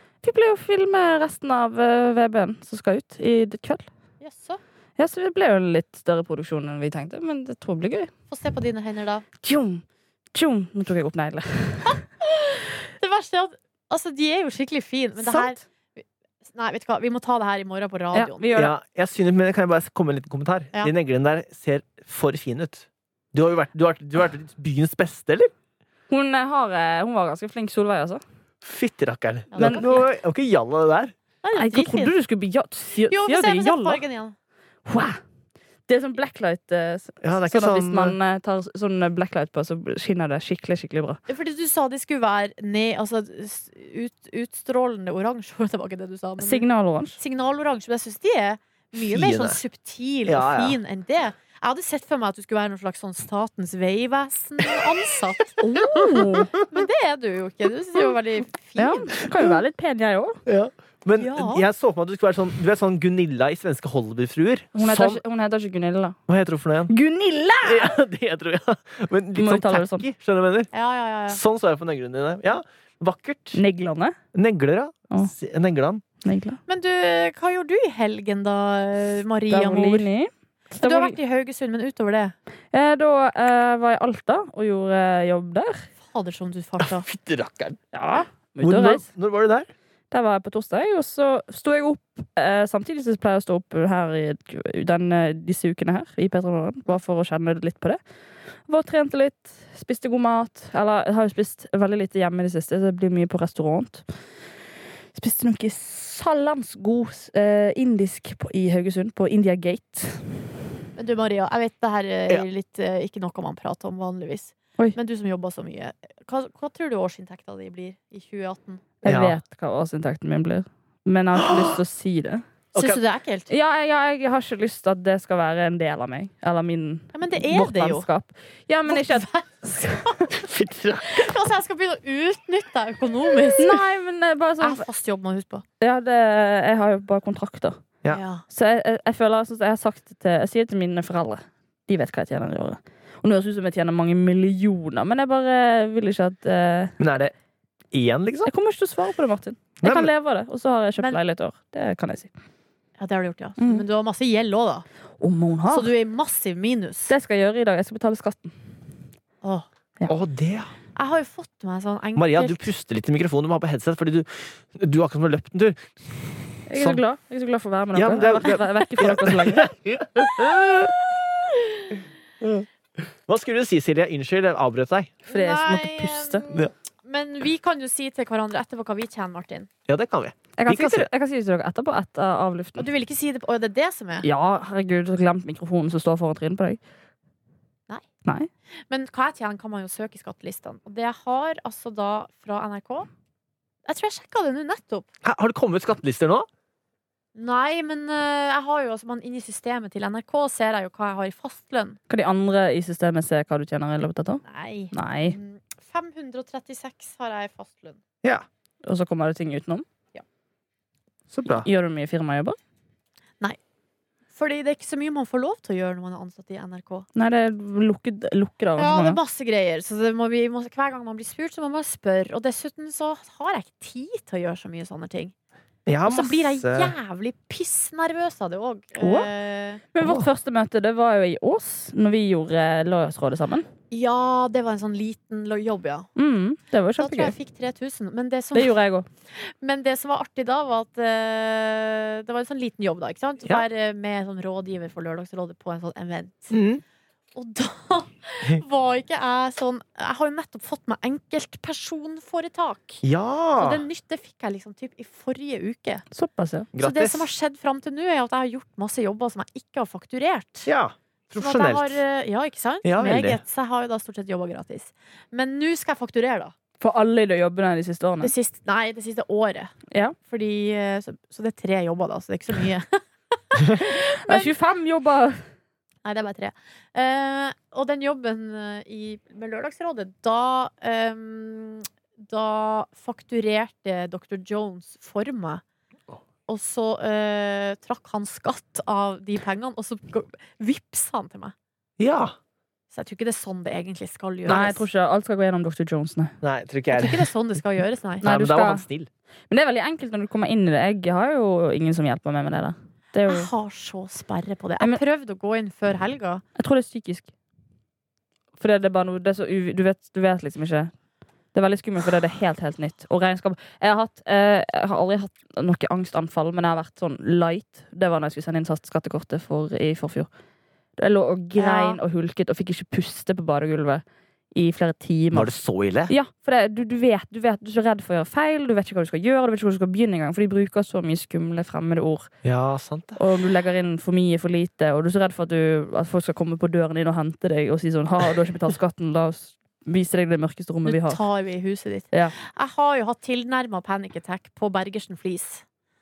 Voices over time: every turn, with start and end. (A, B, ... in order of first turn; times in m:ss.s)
0:00.2-0:03.8 A
0:04.2-0:04.6 B
0:05.0-0:08.1 A
0:08.3-0:09.2 B
0:09.4-0:09.8 A
0:10.3-0:12.0 A
0:13.0-0:18.5 B
0:15.2-0:15.5 A
0:18.1-0:18.7 A
0:18.5-0:25.5 C
0:26.1-0:28.2 A
0:28.6-0:31.1 C
0:29.5-0:30.0 B
0:29.6-0:30.0 A
0:31.4-0:32.1 B
0:31.6-0:34.0 A
0:33.1-0:34.3 B
0:34.8-0:35.2 A
0:35.9-0:41.2 A
0:37.2-0:38.2 C
0:41.3-0:46.6 B
0:46.4-0:47.2 A
0:47.2-0:59.1 B
0:49.0-0:49.6 C
0:50.2-0:50.8 C
0:55.6-0:56.5 A
0:58.8-1:00.4 A
1:00.4-1:05.2 C
1:01.2-1:01.6 B
1:04.7-1:06.2 A
1:06.3-1:06.9 C
1:06.9-1:08.0 A
1:07.6-1:10.7 C
1:09.4-1:10.0 A
1:10.7-1:11.4 B
1:11.3-1:13.6 C
1:13.5-1:14.2 A
1:14.3-1:16.0 C
1:16.2-1:16.6 A
1:16.7-1:20.0 B
1:19.5-1:21.2 A
1:20.8-1:22.3 B
1:22.7-1:25.9 A
1:26.0-1:27.0 B
1:26.8-1:27.8 C
1:27.9-1:29.0 A
1:28.6-1:29.7 C
1:30.1-1:38.0 A
1:38.7-1:44.0 A
1:45.1-1:50.4 A
1:51.0-1:58.8 B
1:59.0-2:02.4 A
1:59.0-1:59.4 C
2:01.4-2:01.8 C
2:02.7-2:03.5 B
2:02.7-2:03.0 C
2:03.5-2:10.2 A
2:07.1-2:08.0 B
2:08.9-2:10.3 B
2:10.3-2:11.3 C
2:11.0-2:13.8 B
2:13.6-2:14.8 A
2:14.6-2:15.6 B
2:15.8-2:17.8 A
2:18.1-2:18.4 B
2:18.5-2:26.9 A
2:27.0-2:27.3 C
2:27.9-2:28.5 C
2:28.4-2:32.3 A
2:29.8-2:30.1 C
2:33.0-2:34.8 B
2:33.6-2:33.8 A
2:35.2-2:35.9 A
2:35.7-2:37.1 B
2:37.1-2:38.6 A
2:40.1-2:40.7 C
2:40.9-2:42.7 B
2:42.2-2:47.0 C
2:46.7-2:49.7 A
2:47.9-2:51.0 C
2:52.4-2:55.2 C
2:55.3-2:59.7 B
2:55.3-2:56.4 A
2:59.9-3:01.1 C
3:00.6-3:02.9 A
3:02.8-3:04.2 B
3:04.2-3:06.8 A
3:08.9-3:13.1 B
3:13.8-3:15.1 B
3:15.2-3:16.5 C
3:17.3-3:22.0 B
3:22.1-3:25.4 A
3:24.4-3:28.0 B
3:28.8-3:29.8 A
3:31.3-3:31.7 C
3:31.5-3:32.6 A
3:34.3-3:37.1 B
3:37.2-3:39.2 A
3:38.8-3:45.3 B
3:45.8-3:46.9 C
3:46.0-3:49.8 B
3:49.0-3:49.3 A
3:49.9-3:53.7 A
3:50.0-3:50.3 C
3:53.9-3:56.1 B
3:56.2-3:57.3 A
3:57.0-3:58.8 B
3:58.5-3:59.0 A
3:59.3-4:06.6 B
4:06.5-4:06.8 C
4:07.3-4:13.0 B
4:13.0-4:13.8 C
4:13.6-4:16.0 B
4:16.1-4:16.7 A
4:16.7-4:17.3 C
4:16.8-4:20.7 B
4:20.6-4:22.0 C
4:21.4-4:26.5 B
4:22.8-4:23.4 C
4:26.8-4:28.3 A
4:28.2-4:29.7 B
4:29.9-4:30.2 A
4:30.3-4:34.5 B
4:33.8-4:35.4 A
4:36.0-4:45.6 B
4:46.5-4:51.5 B
4:52.0-4:52.4 C
4:52.9-4:54.8 B
4:54.4-4:56.4 A
4:56.4-4:57.3 C
4:56.9-4:58.2 B
4:58.2-4:58.8 A
4:58.2-4:59.1 C
4:59.5-5:03.5 A
5:03.3-5:06.4 B
5:06.6-5:07.3 A
5:08.6-5:10.9 A
5:11.5-5:20.3 A
5:21.0-5:25.5 A
5:21.6-5:22.0 B
5:25.3-5:26.1 C
5:26.1-5:32.3 A
5:32.4-5:33.2 C
5:33.2-5:41.2 A
5:40.8-5:45.6 B